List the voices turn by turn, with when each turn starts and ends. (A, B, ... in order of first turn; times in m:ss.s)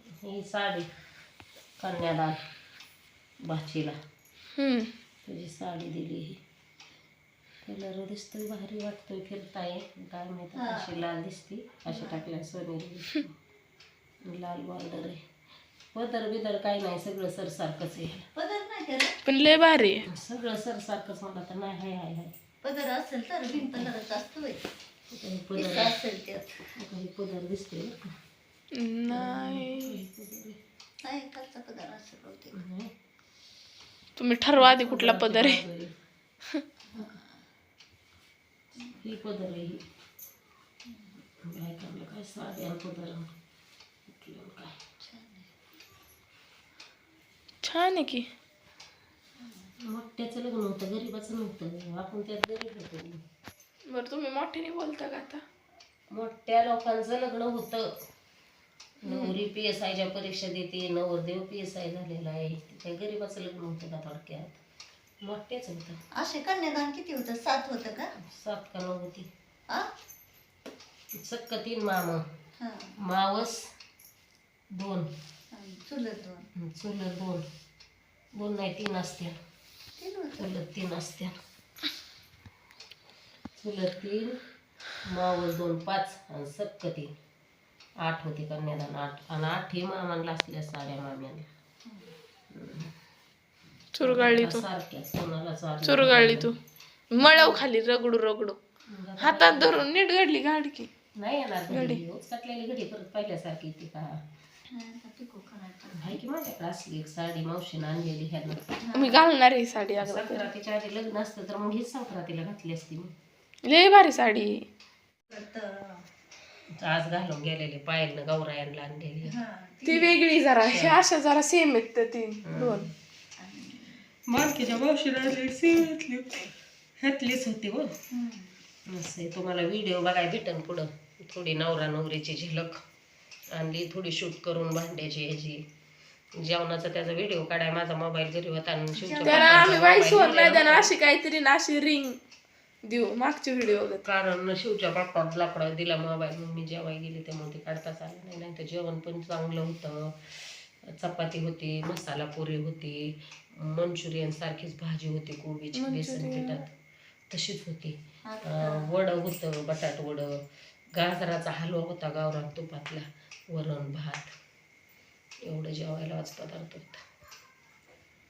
0:00.2-0:00.9 A
0:01.8-0:02.4 A
0:03.5-0:04.0 A
0:04.6-0:04.9 B
0:05.2-0:06.4 A
0:07.6-0:13.4 A
0:10.5-0:11.0 C
0:11.9-0:12.3 C
0:14.2-0:15.2 A
0:15.9-0:18.2 A
0:18.3-0:19.2 C
0:19.2-0:20.0 B
0:20.1-0:22.3 A
0:22.6-0:24.6 C
0:23.6-0:23.9 A
0:25.1-0:26.0 A
0:25.6-0:26.6 C
0:26.7-0:28.1 A
0:28.7-0:30.0 B
0:29.1-0:30.6 A
0:31.0-0:32.6 C
0:32.5-0:32.9 A
0:34.2-0:35.6 B
0:34.6-0:35.9 A
0:36.9-0:37.2 C
0:39.0-0:39.8 A
0:40.9-0:41.1 C
0:41.5-0:43.3 A
0:44.1-0:44.8 A
0:45.0-0:45.5 C
0:47.6-0:48.3 B
0:49.4-0:49.7 C
0:49.9-0:53.2 A
0:53.9-0:55.4 B
0:56.1-0:57.9 A
0:59.0-1:04.6 A
0:59.0-0:59.3 B
1:05.2-1:06.0 A
1:06.2-1:08.1 C
1:08.2-1:09.3 A
1:11.2-1:12.2 A
1:12.6-1:13.0 C
1:13.0-1:13.6 A
1:14.8-1:15.1 A
1:15.5-1:16.5 C
1:16.6-1:17.4 A
1:18.4-1:19.4 A
1:20.0-1:20.5 C
1:20.4-1:21.3 A
1:23.6-1:24.4 A
1:25.0-1:27.1 A
1:28.0-1:31.5 A
1:31.8-1:32.1 C
1:32.5-1:32.9 A
1:33.9-1:34.6 B
1:34.0-1:36.5 A
1:35.8-1:36.6 B
1:37.1-1:38.6 B
1:37.2-1:37.6 A
1:38.9-1:39.8 A
1:39.2-1:40.9 B
1:41.2-1:44.1 A
1:41.7-1:42.0 B
1:44.7-1:46.2 C
1:45.9-1:48.8 A
1:48.8-1:49.2 C
1:48.9-1:50.5 B
1:50.0-1:53.1 A
1:53.6-1:54.6 B
1:55.3-1:56.0 C
1:56.8-1:59.3 A
1:59.2-2:00.2 C
1:59.8-2:02.8 B
2:00.6-2:01.0 A
2:02.4-2:02.9 A
2:03.4-2:04.0 C
2:04.3-2:08.0 A
2:08.1-2:08.6 C
2:08.9-2:12.8 A
2:13.5-2:15.6 A
2:16.4-2:20.9 A
2:18.9-2:20.5 C
2:19.2-2:22.2 B
2:22.8-2:24.0 B
2:23.7-2:36.7 A
2:35.7-2:36.6 B
2:37.3-2:40.4 A
2:38.2-2:39.0 C
2:41.0-2:44.3 A
2:45.4-2:47.0 A